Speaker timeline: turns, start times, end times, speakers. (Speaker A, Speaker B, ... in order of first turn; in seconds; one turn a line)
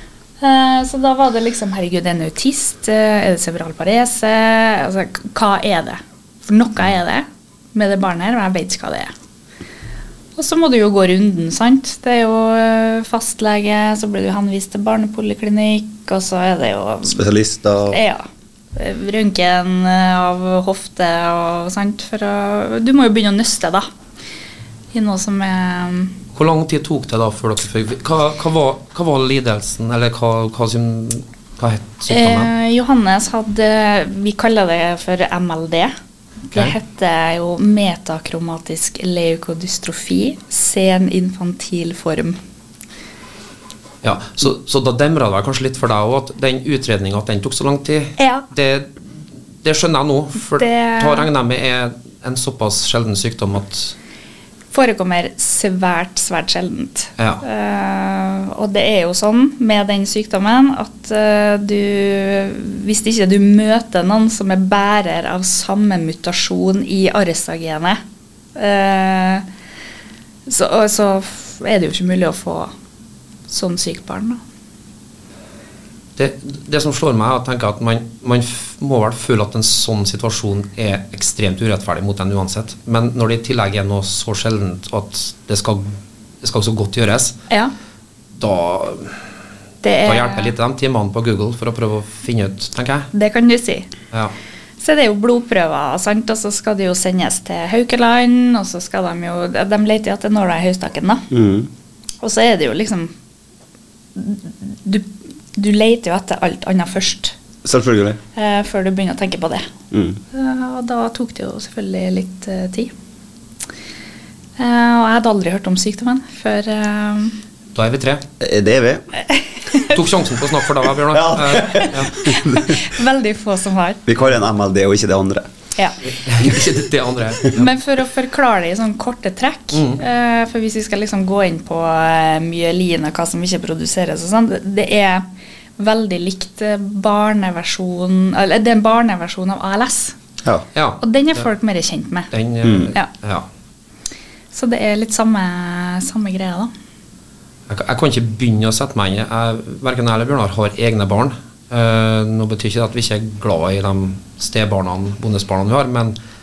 Speaker A: 0.4-9.1
Speaker A: 10.3-17.2
Speaker B: 17.1-18.0
Speaker A: 17.8-23.9
Speaker A: 24.9-26.1
Speaker C: 26.3-32.5
Speaker A: 32.1-35.9
Speaker A: 36.5-42.4
Speaker C: 44.0-48.9
Speaker A: 48.2-48.4
Speaker C: 49.6-53.9
Speaker A: 50.6-51.3
Speaker A: 54.7-68.0
Speaker C: 57.2-57.4
Speaker A: 68.5-69.4
Speaker A: 70.5-72.7
Speaker A: 73.5-74.4
Speaker C: 76.2-87.4
Speaker C: 88.4-89.2
Speaker A: 89.8-90.5
Speaker C: 90.0-93.1
Speaker A: 93.1-93.9
Speaker A: 94.8-101.3
Speaker B: 101.3-101.7
Speaker A: 102.2-103.1
Speaker A: 104.1-107.3
Speaker B: 107.6-108.2
Speaker A: 108.3-109.7
Speaker B: 109.9-110.2
Speaker A: 110.3-112.9
Speaker A: 114.6-117.4
Speaker C: 117.7-118.2
Speaker B: 118.4-119.0
Speaker A: 119.2-120.0
Speaker C: 119.8-122.1
Speaker B: 121.1-122.8
Speaker A: 122.1-124.0
Speaker B: 124.0-125.5
Speaker C: 126.0-127.7
Speaker A: 127.5-135.2
Speaker C: 129.7-130.0
Speaker A: 135.8-140.2
Speaker C: 140.7-141.0
Speaker A: 141.0-142.3
Speaker C: 142.3-143.5
Speaker B: 142.6-142.9
Speaker A: 144.5-146.7
Speaker C: 147.7-156.1